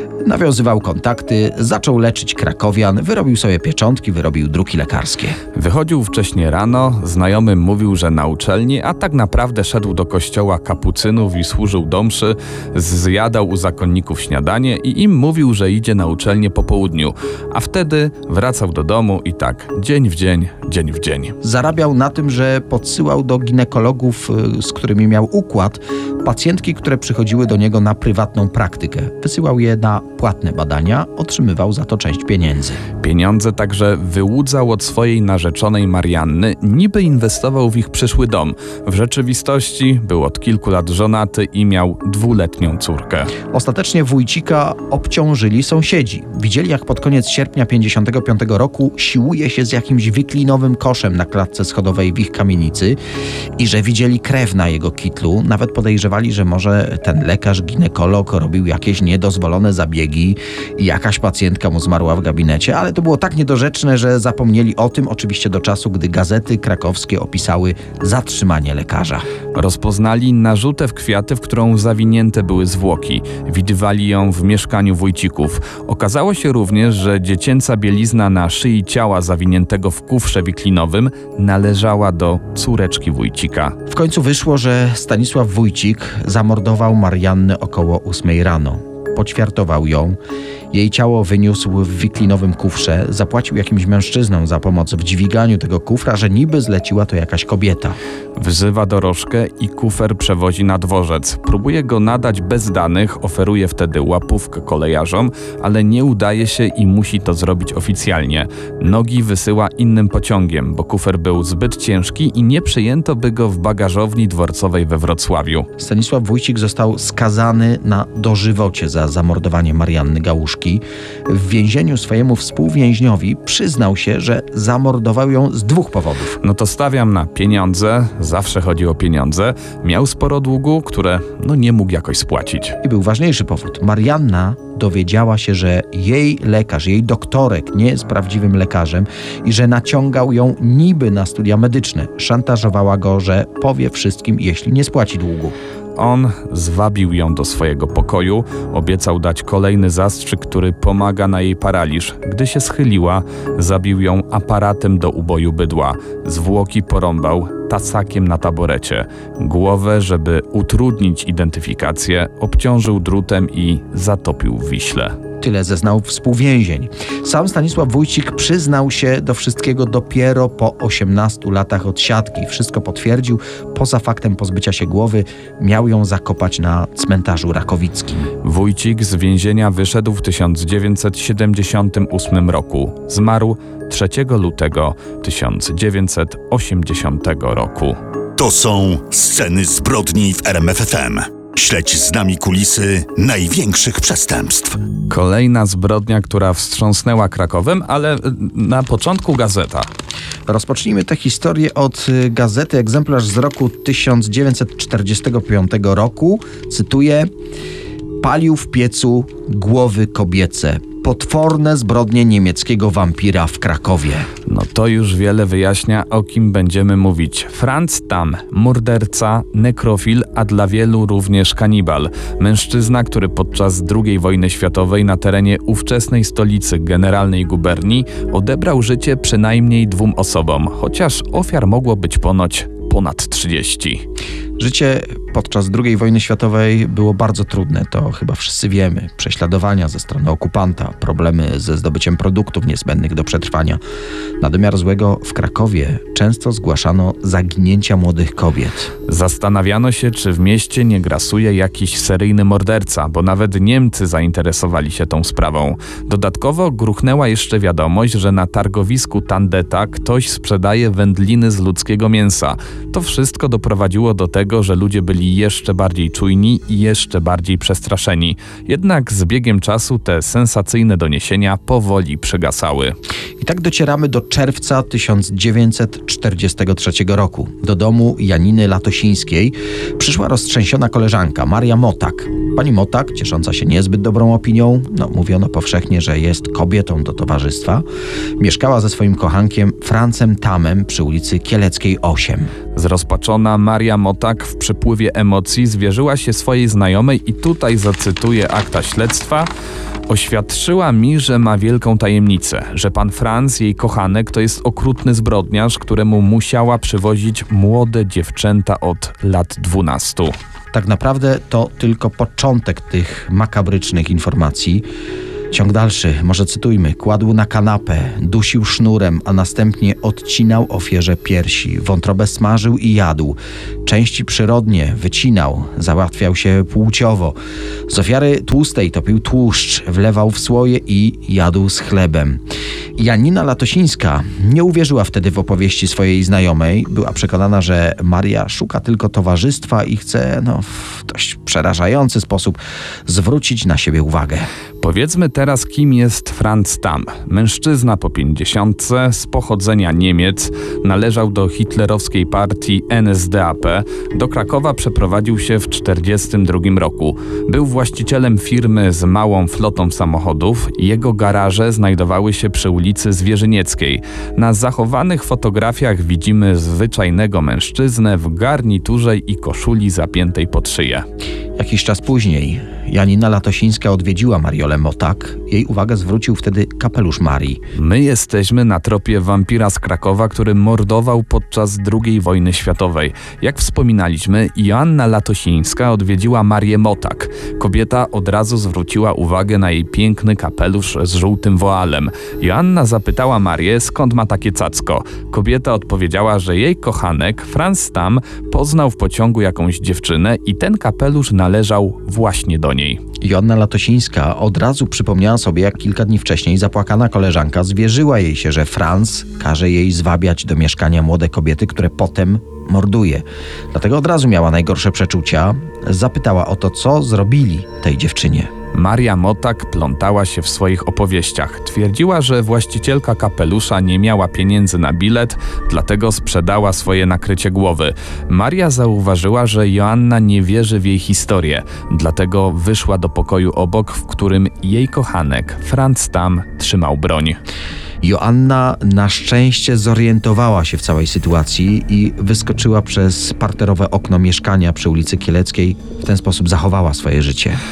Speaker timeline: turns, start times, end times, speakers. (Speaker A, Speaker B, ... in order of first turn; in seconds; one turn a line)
Speaker A: 0.2-5.4
Speaker B: 5.5-21.4
Speaker A: 21.4-32.8
Speaker B: 33.0-43.3
Speaker A: 43.5-53.0
Speaker A: 53.6-69.3
Speaker B: 69.5-83.8
Speaker A: 83.9-90.2
Speaker A: 90.7-98.0
Speaker B: 98.4-115.7
Speaker A: 115.8-126.4
Speaker B: 126.4-132.8
Speaker A: 132.8-145.6
Speaker B: 146.0-165.2
Speaker A: 165.4-178.3
Speaker B: 178.4-188.0
Speaker C: 188.4-194.8
Speaker B: 195.1-199.9
Speaker A: 200.5-207.3
Speaker A: 208.2-214.3
Speaker B: 214.5-234.0
Speaker A: 234.6-243.8
Speaker A: 244.4-248.9
Speaker B: 249.1-273.0
Speaker A: 273.4-287.8
Speaker A: 288.4-292.5
Speaker B: 292.7-299.5
Speaker B: 300.1-310.4
Speaker A: 310.7-314.8
Speaker A: 315.5-327.4
Speaker A: 327.9-332.4
Speaker A: 333.0-344.5
Speaker B: 344.8-371.1
Speaker A: 371.6-377.6
Speaker B: 377.8-403.0
Speaker A: 403.2-418.5
Speaker B: 418.7-437.4
Speaker A: 438.0-447.6